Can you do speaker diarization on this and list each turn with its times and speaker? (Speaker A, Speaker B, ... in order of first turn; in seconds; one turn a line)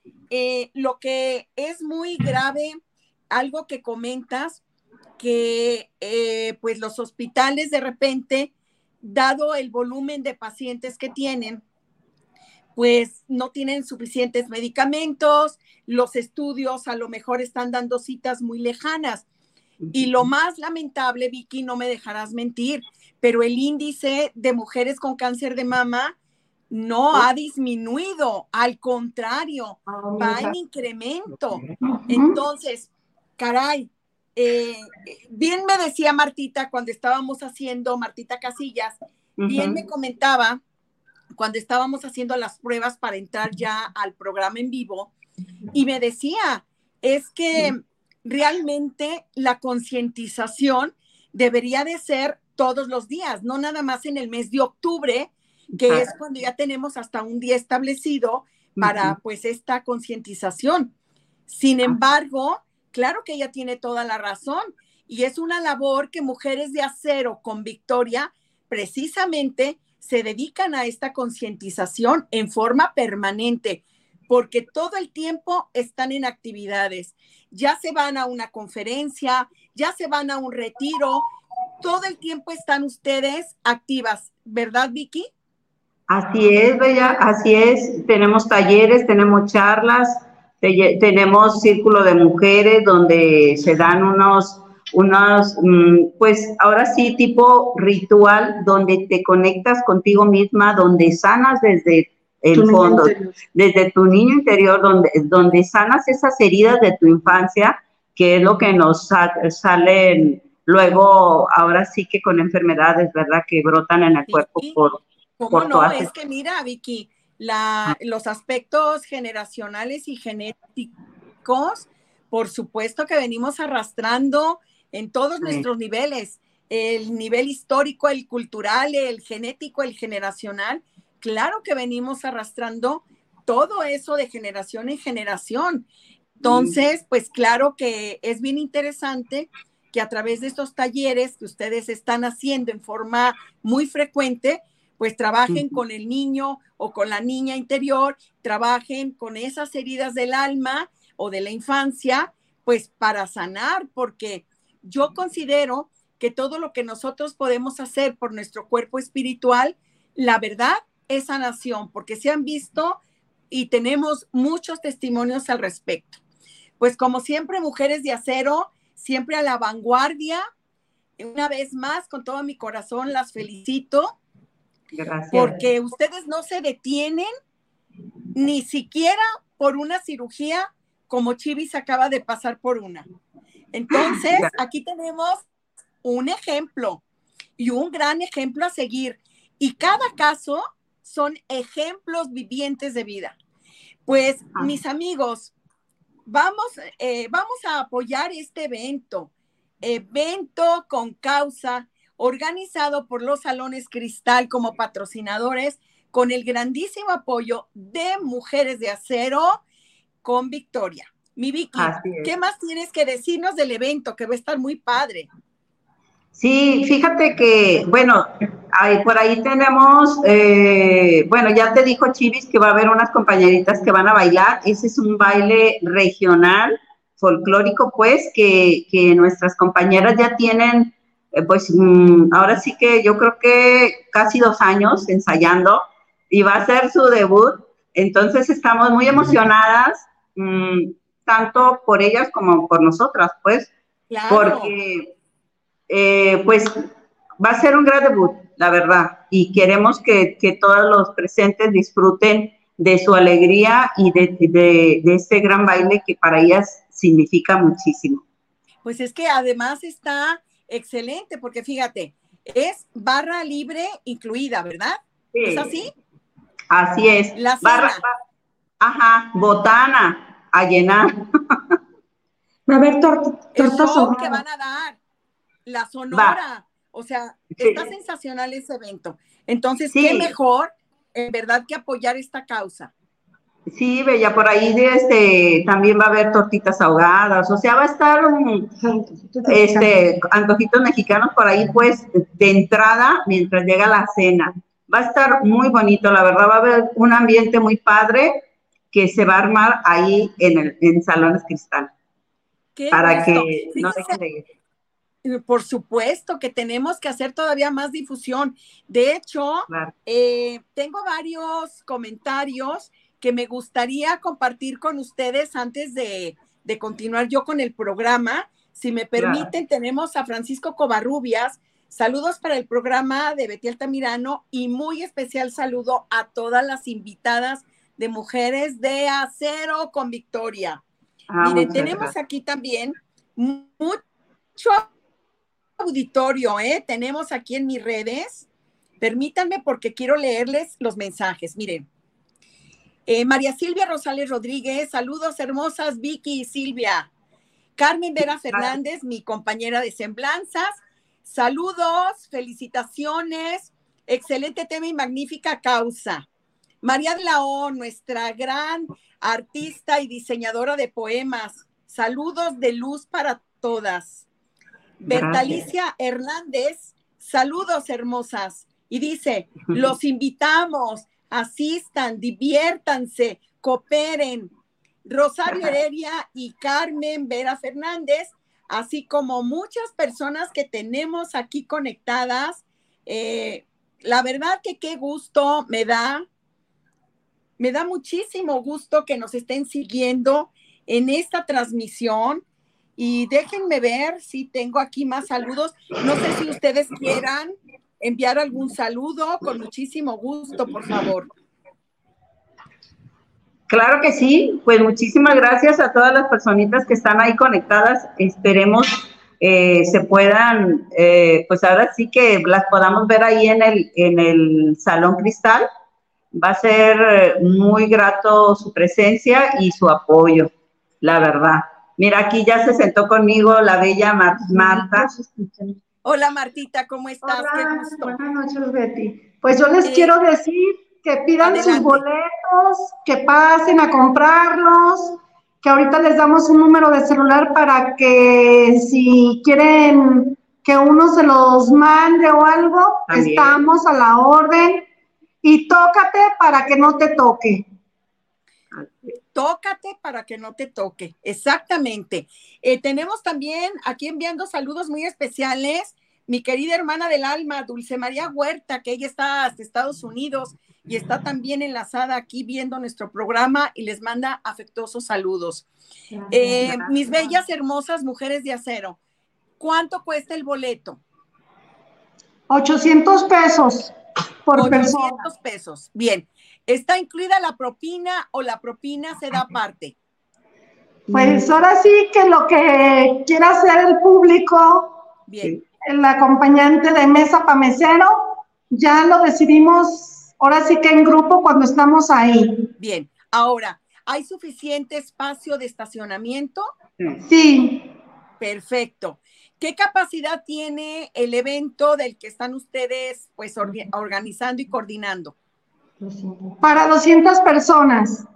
Speaker A: 0.3-2.8
Speaker A: 3.3-4.6
Speaker A: 5.2-11.6
Speaker A: 12.8-19.2
Speaker B: 19.8-20.1
Speaker A: 19.9-26.1
Speaker A: 26.7-40.6
Speaker C: 29.9-30.5
Speaker C: 31.8-32.4
Speaker B: 39.4-39.8
Speaker A: 41.3-45.1
Speaker A: 45.7-60.9
Speaker B: 55.8-56.1
Speaker B: 58.8-59.2
Speaker A: 61.5-81.3
Speaker A: 81.8-85.3
Speaker B: 86.1-116.1
Speaker D: 102.5-103.3
Speaker A: 114.3-114.8
Speaker A: 115.4-120.9
Speaker A: 121.4-135.9
Speaker A: 136.4-163.0
Speaker B: 136.4-136.7
Speaker A: 163.5-166.2
Speaker A: 166.8-170.4
Speaker A: 171.2-174.2
Speaker B: 174.9-175.6
Speaker A: 175.3-177.3
Speaker A: 178.3-183.1
Speaker A: 183.7-185.5
Speaker B: 183.9-184.5
Speaker A: 186.0-187.0
Speaker A: 187.6-193.4
Speaker A: 194.1-195.5
Speaker A: 196.3-199.3
Speaker A: 199.8-209.6
Speaker A: 210.2-215.3
Speaker B: 211.7-212.3
Speaker B: 216.3-243.7
Speaker A: 244.1-244.7
Speaker B: 244.3-245.1
Speaker B: 245.9-246.8
Speaker B: 247.4-258.2
Speaker A: 258.8-265.9
Speaker B: 265.3-265.7
Speaker B: 266.7-268.1
Speaker A: 267.4-268.0
Speaker B: 268.8-271.7
Speaker C: 272.7-274.4
Speaker A: 273.5-275.0
Speaker A: 275.6-282.9
Speaker B: 276.1-276.4
Speaker B: 277.6-277.8
Speaker B: 279.9-280.3
Speaker B: 283.7-288.8
Speaker D: 289.2-289.6
Speaker B: 289.4-301.9
Speaker A: 302.8-304.2
Speaker B: 302.9-304.5
Speaker A: 305.2-330.8
Speaker B: 309.7-309.9
Speaker B: 319.1-319.5
Speaker B: 331.3-332.1
Speaker A: 331.4-334.0
Speaker A: 334.6-334.8
Speaker A: 335.8-338.4
Speaker A: 339.0-341.9
Speaker A: 343.1-347.1
Speaker A: 347.8-356.3
Speaker A: 356.8-364.3
Speaker A: 365.0-374.5
Speaker B: 365.1-365.6
Speaker A: 375.1-386.2
Speaker A: 387.6-392.4
Speaker A: 393.0-401.3
Speaker B: 403.7-415.7
Speaker B: 416.3-420.5
Speaker B: 421.0-425.1
Speaker D: 424.6-425.7
Speaker A: 426.0-428.2
Speaker D: 427.2-444.9
Speaker A: 429.8-430.1
Speaker A: 431.4-432.0
Speaker B: 443.1-443.6
Speaker D: 445.4-447.6
Speaker B: 448.7-449.1
Speaker A: 449.3-465.6
Speaker A: 466.3-469.0
Speaker D: 466.3-466.6
Speaker A: 469.6-471.0
Speaker D: 472.5-473.9
Speaker D: 474.4-475.3
Speaker A: 474.5-479.9
Speaker D: 481.1-485.0
Speaker B: 481.1-481.5
Speaker A: 485.3-485.6
Speaker D: 485.8-492.7
Speaker A: 492.8-496.7
Speaker D: 497.2-497.8
Speaker A: 498.4-505.3
Speaker C: 506.0-506.3
Speaker D: 506.5-508.2